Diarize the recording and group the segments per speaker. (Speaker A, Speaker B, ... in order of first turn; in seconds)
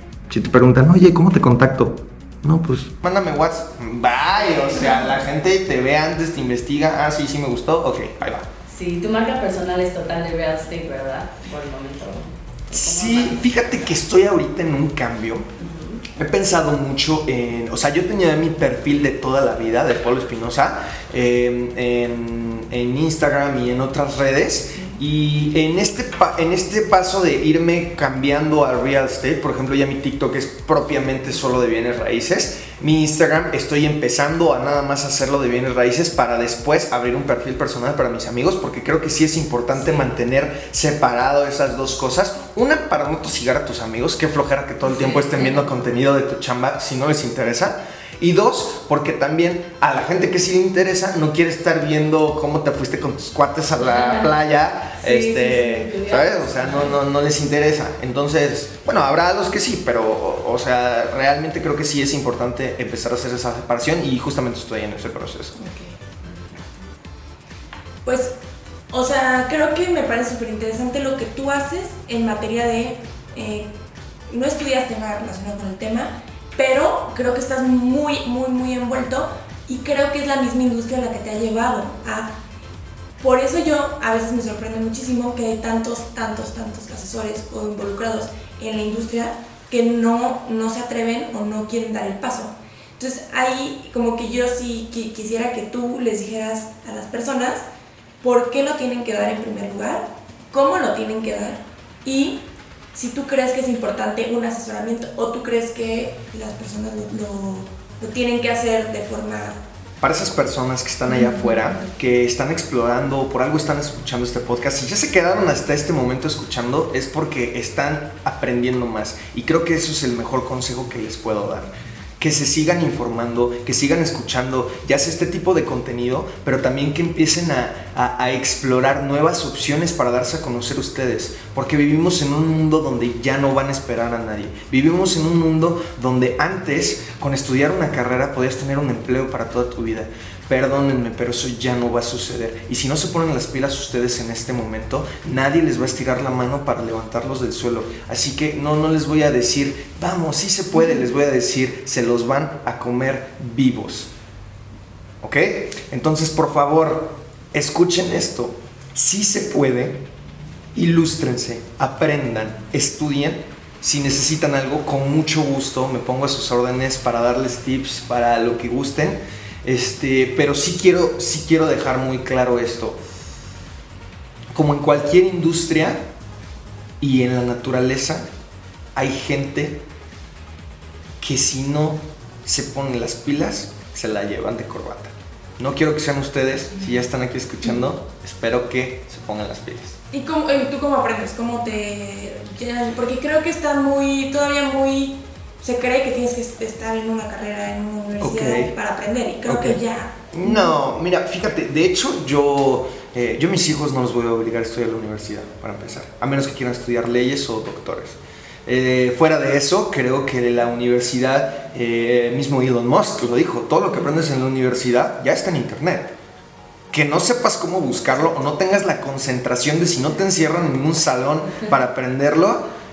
Speaker A: 0.3-8.5, 12.7-15.4, 16.2-65.6, 110.0-154.1, 155.2-160.1, 160.8-173.0, 174.5-176.1, 177.0-178.2, 178.9-179.8, 181.2-190.0, 198.2-198.7, 199.5-199.8, 200.3-216.1, 216.9-222.7
Speaker B: 8.7-13.5, 15.6-16.0, 44.9-45.6, 53.9-54.3, 55.0-57.0
Speaker C: 68.0-68.3, 68.9-73.7, 74.3-82.4, 83.2-97.6, 98.2-109.6, 111.1-111.5, 190.1-200.8